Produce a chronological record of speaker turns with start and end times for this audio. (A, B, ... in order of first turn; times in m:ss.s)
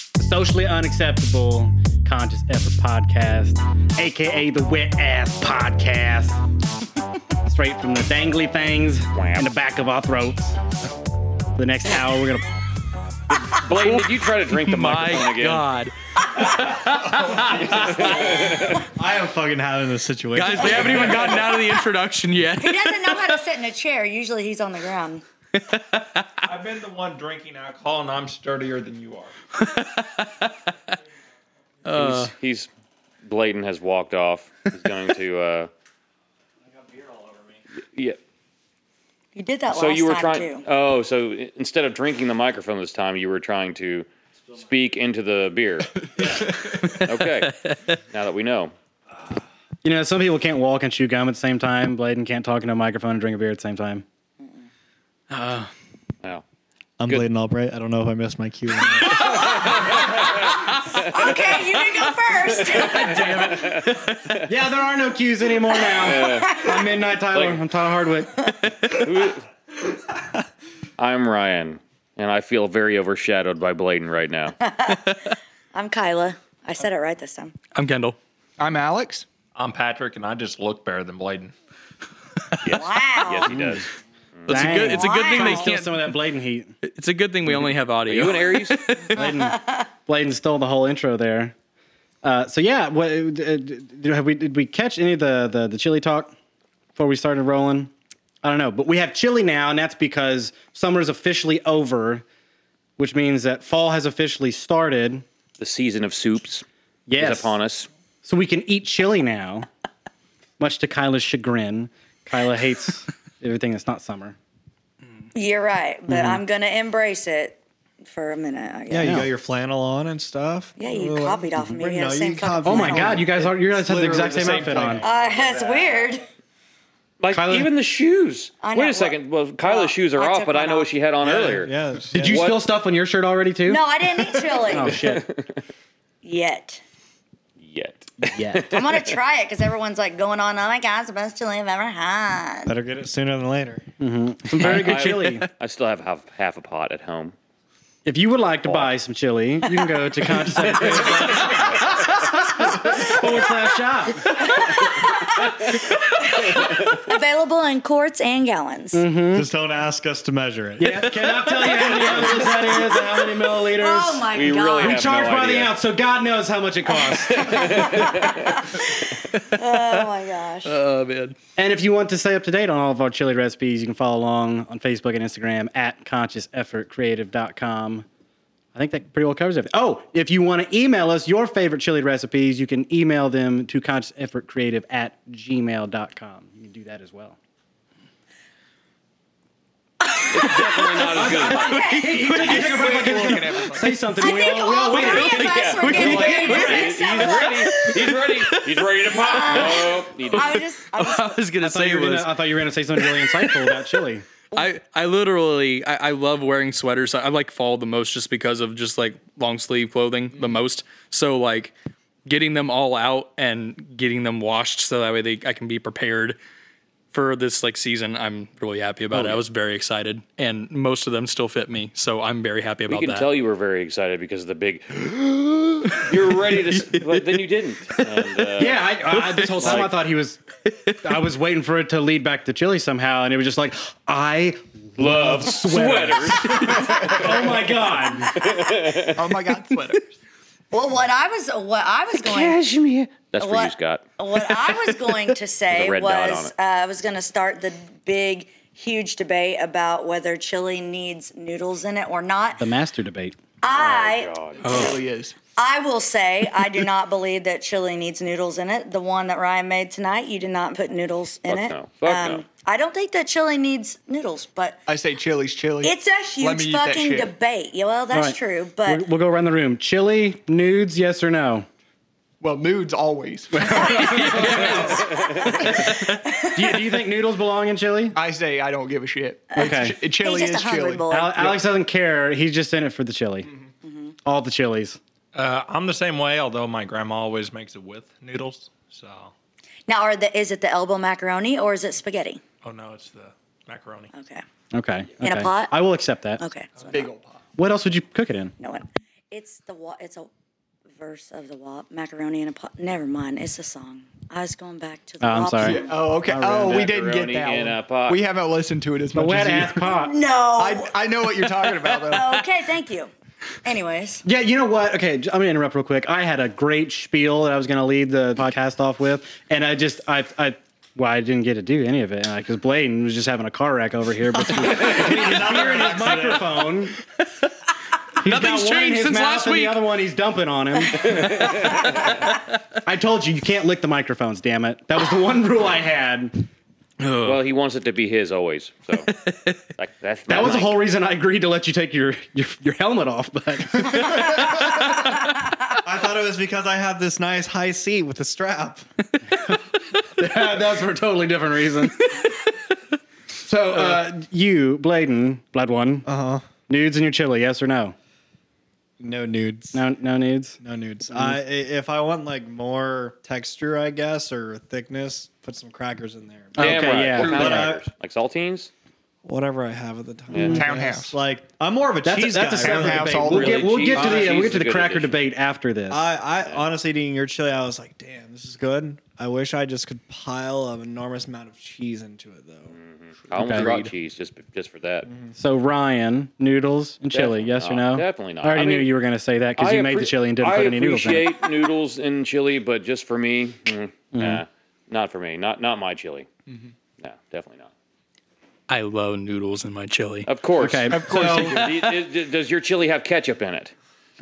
0:00.2-0:06.4 A
0:07.4-0:10.6 A
0:09.2-0:09.5 B
0:11.6-0:12.7 A
0:13.3-0:15.7 B
0:13.7-0:18.6 C
0:17.2-0:18.5 D
0:17.8-0:18.9 B
0:19.0-0:21.5 E
0:20.4-0:23.4 C
0:22.6-0:25.2 F
0:25.6-0:26.3 C
0:26.4-0:29.3 D
0:29.6-0:30.5 C
0:31.8-0:32.3 C
0:31.9-0:32.7 B
0:33.2-0:35.7 B
0:36.7-0:37.6 D
0:39.4-0:40.7 F
0:39.7-0:47.6 B
0:46.2-0:47.9 C
0:48.1-0:48.7 B
0:49.8-0:54.0 A
0:55.3-0:55.7 C
0:57.0-0:59.5 E
0:59.0-1:00.2 C
0:59.2-1:00.0 F
0:59.7-1:01.6 B
1:00.9-1:03.4 F
1:02.7-1:04.5 B
1:03.0-1:04.4 C
1:04.5-1:08.5 A
1:05.9-1:06.6 B
1:05.9-1:06.7 F
1:07.3-1:07.6 B
1:08.9-1:09.4 B
1:11.0-1:14.6 B
1:14.6-1:15.2 F
1:15.7-1:17.6 F
1:17.8-1:18.2 C
1:18.6-1:19.3 G
1:19.6-1:21.5 D
1:22.6-1:23.9 B
1:22.7-1:23.7 F
1:23.5-1:23.8 A
1:24.4-1:24.8 B
1:24.5-1:26.2 C
1:24.5-1:26.7 A
1:24.7-1:25.7 F
1:26.8-1:29.2 C
1:28.1-1:28.8 B
1:29.1-1:31.5 A
1:29.4-1:29.7 F
1:32.2-1:36.3 A
1:37.0-1:37.9 A
1:38.4-1:42.2 A
1:43.0-1:45.2 A
1:45.6-1:46.6 B
1:47.1-1:47.5 A
1:47.2-1:47.9 B
1:48.2-1:49.7 A
1:50.6-1:54.4 A
1:55.3-1:59.2 F
1:56.1-1:56.4 A
1:58.9-2:05.1 E
1:59.0-1:59.3 A
2:00.8-2:03.2 F
2:02.6-2:05.0 A
2:03.4-2:05.0 G
2:04.3-2:06.1 D
2:05.0-2:06.2 F
2:07.2-2:12.6 B
2:07.3-2:07.7 A
2:08.6-2:10.9 F
2:11.2-2:12.5 E
2:12.1-2:13.8 A
2:13.7-2:15.0 F
2:14.6-2:15.2 A
2:14.8-2:15.6 B
2:16.2-2:16.8 F
2:17.6-2:19.2 B
2:18.2-2:18.6 A
2:18.7-2:22.7 F
2:22.7-2:23.9 E
2:24.0-2:25.5 A
2:24.6-2:27.4 B
2:24.8-2:25.1 C
2:28.0-2:34.4 A
2:28.6-2:28.9 B
2:30.6-2:31.8 B
2:34.3-2:39.0 F
2:38.9-2:39.5 A
2:39.3-2:41.0 E
2:40.8-2:47.9 A
2:41.9-2:45.0 F
2:44.3-2:45.8 B
2:47.3-2:50.8 F
2:47.3-2:48.6 B
2:49.2-2:50.0 C
2:50.6-2:51.4 C
2:51.6-2:58.1 A
2:58.7-3:07.4 A
3:10.3-3:11.8 B
3:11.0-3:17.2 A
3:11.1-3:13.2 C
3:12.3-3:14.0 G
3:14.2-3:18.0 F
3:14.8-3:22.4 C
3:15.4-3:20.6 B
3:19.0-3:21.4 F
3:21.6-3:24.2 A
3:23.0-3:24.0 C
3:24.6-3:31.7 C
3:32.3-3:36.4 C
3:37.1-3:43.3 C
3:39.1-3:39.4 B
3:42.9-3:49.0 B
3:45.9-3:47.4 C
3:48.0-3:48.3 C
3:48.6-3:50.4 A
3:49.1-3:49.9 C
3:49.6-3:49.9 B
3:50.7-3:51.1 C
3:51.0-3:58.3 A
3:55.0-3:57.6 B
3:58.3-3:59.3 B
3:58.3-3:58.7 F
3:59.1-4:00.1 G
4:00.7-4:02.6 F
4:02.2-4:04.0 B
4:03.4-4:12.7 F
4:04.5-4:05.1 C
4:05.7-4:06.5 B
4:12.6-4:13.4 A
4:13.6-4:14.7 F
4:13.7-4:15.0 B
4:14.6-4:15.0 C
4:14.7-4:15.4 G
4:15.6-4:24.8 F
4:21.5-4:22.4 B
4:24.9-4:27.3 G
4:25.8-4:29.0 F
4:28.1-4:31.7 A
4:32.4-4:35.1 G
4:33.5-4:35.0 A
4:33.9-4:36.2 C
4:36.3-4:36.6 F
4:36.5-4:38.2 A
4:38.1-4:41.5 G
4:39.5-4:41.5 F
4:39.6-4:40.0 A
4:41.1-4:43.5 A
4:43.8-4:44.1 F
4:44.2-4:45.0 A
4:45.3-4:49.3 D
4:49.9-4:52.4 F
4:52.6-4:54.1 D
4:54.1-4:54.4 F
4:54.7-4:56.4 A
4:55.2-4:55.8 F
4:56.4-4:57.1 F
4:56.8-4:57.2 D
4:56.9-4:57.3 G
4:57.6-4:58.5 A
4:58.6-5:00.3 F
5:00.9-5:05.9 F
5:05.2-5:06.9 A
5:05.6-5:09.9 G
5:06.6-5:08.2 B
5:09.2-5:10.1 A
5:09.8-5:10.9 F
5:10.6-5:12.4 G
5:12.1-5:13.1 F
5:13.6-5:14.2 F
5:14.2-5:27.0 A
5:24.4-5:26.6 E
5:28.2-5:32.1 A
5:28.2-5:29.8 C
5:31.1-5:32.0 B
5:32.8-5:36.5 A
5:37.0-5:37.4 C
5:37.2-5:39.1 B
5:39.1-5:39.6 C
5:39.8-5:40.8 B
5:40.3-5:44.6 A
5:45.8-5:48.8 E
5:50.2-5:52.2 A
5:53.4-5:56.1 A
5:56.0-5:56.5 E
5:56.7-5:58.0 A
5:59.0-5:59.8 E
5:59.7-6:00.6 A
6:00.6-6:07.8 E
6:01.1-6:01.4 A
6:06.6-6:07.8 A
6:06.6-6:08.7 B
6:09.2-6:14.6 E
6:10.3-6:10.6 B
6:10.4-6:11.2 G
6:12.0-6:16.0 A
6:12.6-6:14.3 G
6:13.3-6:15.2 B
6:15.9-6:22.8 E
6:22.7-6:25.1 B
6:23.4-6:23.7 A
6:23.4-6:23.9 C
6:25.1-6:25.3 E
6:25.4-6:31.4 A
6:27.1-6:28.9 B
6:29.6-6:36.3 B
6:34.1-6:34.4 A
6:37.0-6:37.7 B
6:38.7-6:40.3 C
6:40.3-6:43.7 B
6:40.6-6:41.7 A
6:40.9-6:41.6 G